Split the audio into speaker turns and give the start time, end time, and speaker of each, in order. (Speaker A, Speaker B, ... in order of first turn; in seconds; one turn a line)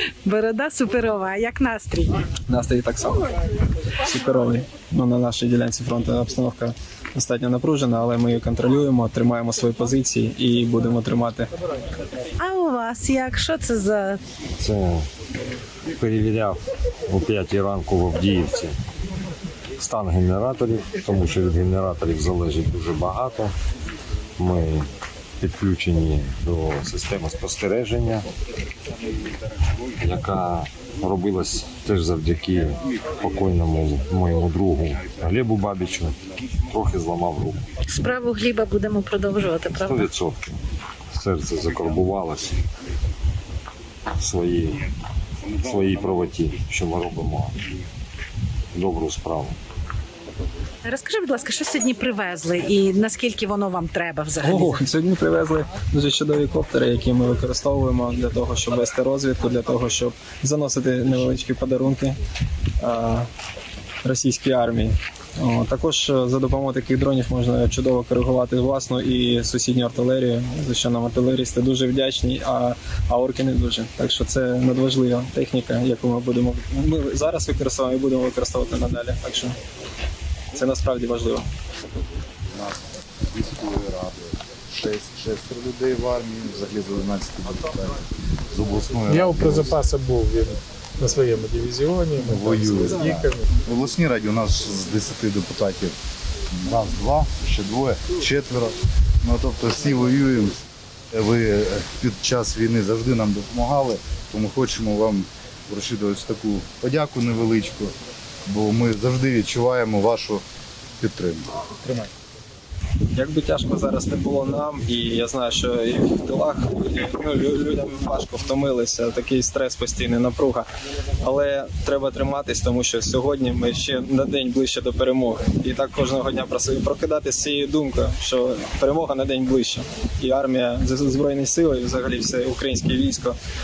Speaker A: 0.2-2.2
Speaker B: 2.5-11.5
Speaker A: 12.4-14.2
Speaker C: 14.6-15.0
Speaker C: 15.9-18.7
Speaker C: 19.8-23.5
Speaker C: 24.4-24.9
Speaker C: 25.4-28.3
Speaker C: 30.0-36.1
Speaker C: 36.7-37.7
Speaker A: 37.9-40.1
Speaker C: 39.7-40.6
Speaker C: 41.1-42.6
Speaker C: 44.2-44.9
Speaker C: 45.5-47.6
Speaker C: 48.7-49.6
Speaker A: 50.8-54.8
Speaker B: 54.4-62.2
Speaker B: 62.8-63.3
Speaker B: 64.0-79.6
Speaker B: 80.5-81.5
Speaker D: 82.5-89.8
Speaker E: 89.1-93.5
Speaker D: 92.2-96.0
Speaker D: 96.5-107.9
Speaker D: 108.5-110.4
Speaker D: 111.0-111.6
Speaker B: 113.1-120.7
Speaker B: 121.2-133.4